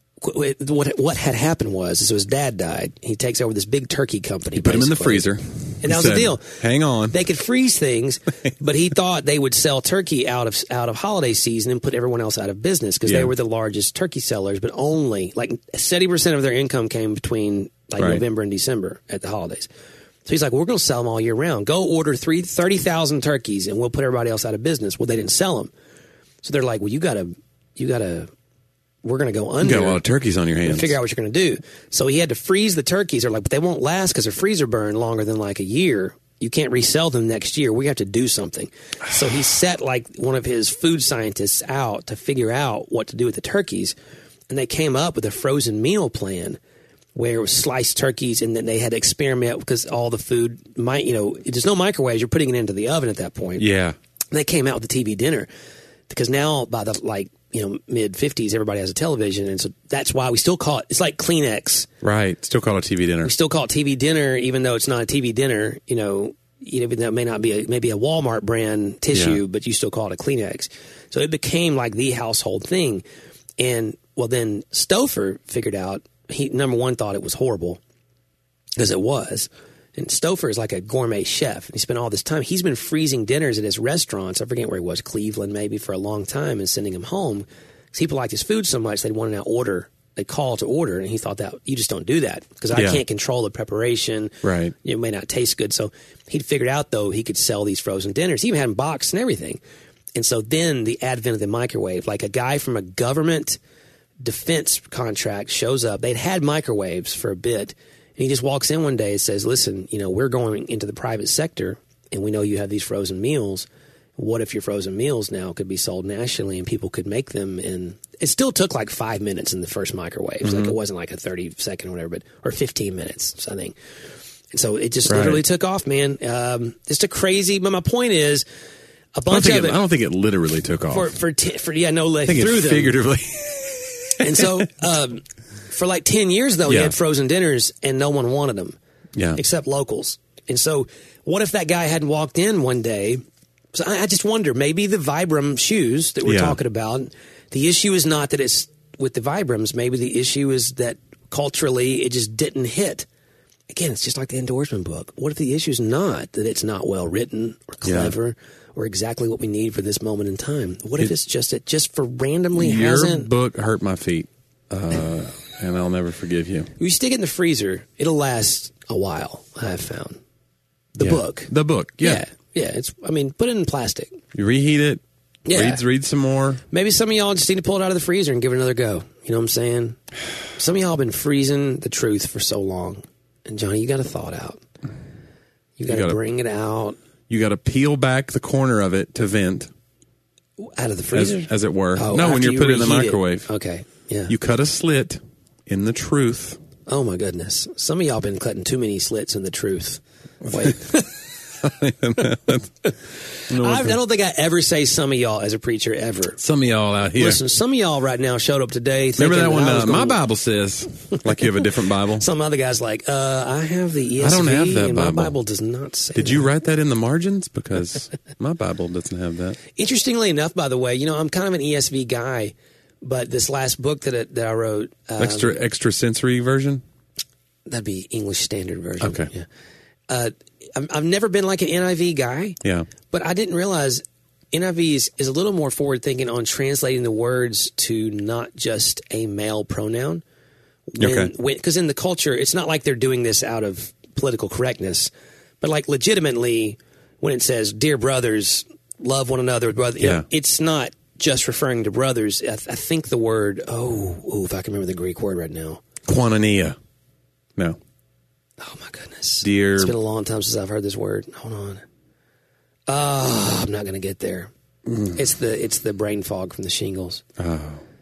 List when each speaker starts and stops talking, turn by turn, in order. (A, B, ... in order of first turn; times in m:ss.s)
0:00.2-0:05.3 A
0:04.6-0:07.2 B
0:05.8-0:06.6 A
0:07.1-0:19.7 A
0:13.1-0:13.3 B
0:18.0-0:18.2 B
0:20.3-0:25.7 A
0:26.4-0:28.3 A
0:29.0-0:30.0 A
0:29.6-0:31.0 B
0:30.6-0:44.0 A
0:44.5-0:46.6 A
0:47.2-0:53.7 A
0:53.6-0:54.0 B
0:54.3-0:55.5 A
0:56.1-1:01.9 A
1:02.0-1:03.3 B
1:03.2-1:13.0 A
1:09.1-1:09.4 B
1:13.6-1:17.8 A
1:18.8-1:39.6 A
1:32.7-1:33.0 B
1:34.4-1:34.8 B
1:40.2-1:43.6 A
1:44.2-2:03.8 A
2:00.4-2:00.8 B
2:04.5-2:08.4 A
2:05.1-2:05.4 B
2:09.2-2:09.8 A
2:09.3-2:11.1 B
2:10.9-2:13.0 A
2:12.3-2:14.5 B
2:14.2-2:18.8 A
2:16.7-2:17.0 B
2:19.2-2:19.4 B
2:19.4-2:23.2 A
2:23.7-2:33.1 A
2:26.2-2:26.6 B
2:33.7-2:43.3 A
2:37.8-2:38.2 B
2:42.6-2:46.7 B
2:46.8-2:50.2 A
2:51.0-2:54.2 A
2:51.0-2:52.2 B
2:54.3-2:56.6 B
2:55.5-2:55.8 A
2:56.7-3:00.0 A
3:00.6-3:04.6 A
3:05.8-3:07.0 A
3:05.9-3:06.2 B
3:07.3-3:09.7 B
3:10.6-3:14.3 A
3:11.1-3:13.5 B
3:14.3-3:16.6 B
3:16.9-3:21.1 A
3:20.5-3:21.0 B
3:21.6-3:22.7 B
3:23.5-3:24.0 B
3:23.5-3:26.4 A
3:26.4-3:27.4 B
3:27.2-3:30.2 A
3:29.2-3:32.3 B
3:32.2-3:36.5 A
3:34.2-3:35.4 B
3:36.2-3:39.6 B
3:39.8-3:45.6 A
3:45.2-3:46.8 B
3:47.7-3:49.5 A
3:49.0-3:49.3 B
3:50.1-3:52.6 A
3:52.6-3:52.9 B
3:53.1-4:00.2 A
4:00.9-4:15.8 A
4:01.0-4:01.3 B
4:10.0-4:10.3 B
4:16.1-4:16.8 B
4:18.6-4:21.8 A
4:19.4-4:20.0 B
4:22.9-4:24.5 A
4:24.9-4:25.2 B
4:25.1-4:27.2 A
4:27.4-4:27.8 B